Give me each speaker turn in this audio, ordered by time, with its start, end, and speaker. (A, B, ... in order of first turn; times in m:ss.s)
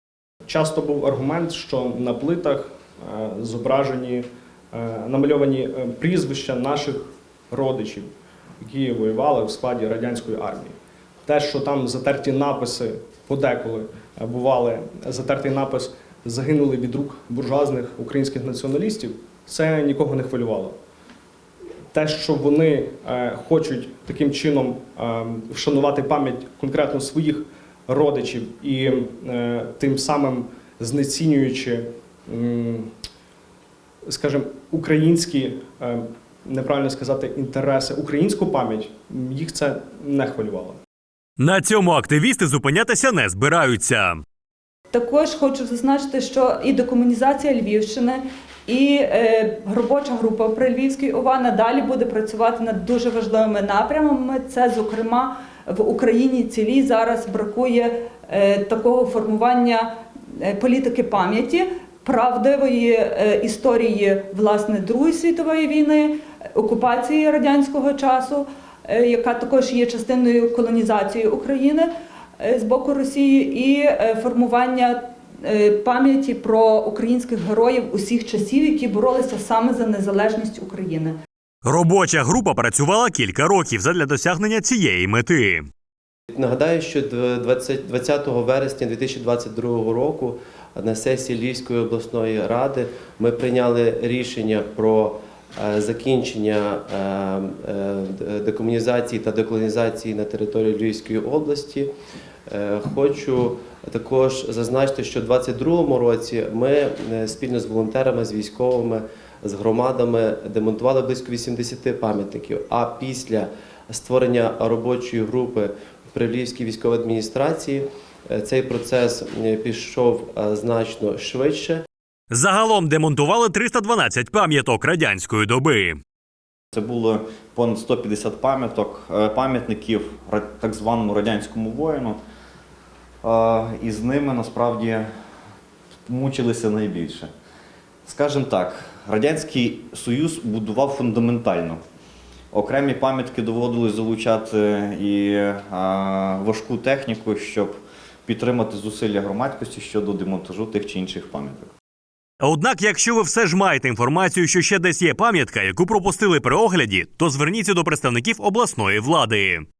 0:00.4-0:20.8 A
0:21.9-0:32.9 A
0:34.1-0:40.8 A
0:41.4-0:44.2 B
0:44.9-1:11.9 C
1:12.4-1:21.2 C
1:21.6-1:25.7 B
1:26.3-1:41.9 D
1:42.5-2:01.8 D
2:02.3-2:06.0 B
2:06.7-2:12.2 E
2:13.2-2:15.1 E
2:16.1-2:17.3 E
2:18.1-2:21.8 E
2:22.5-2:31.7 E
2:32.4-2:39.6 B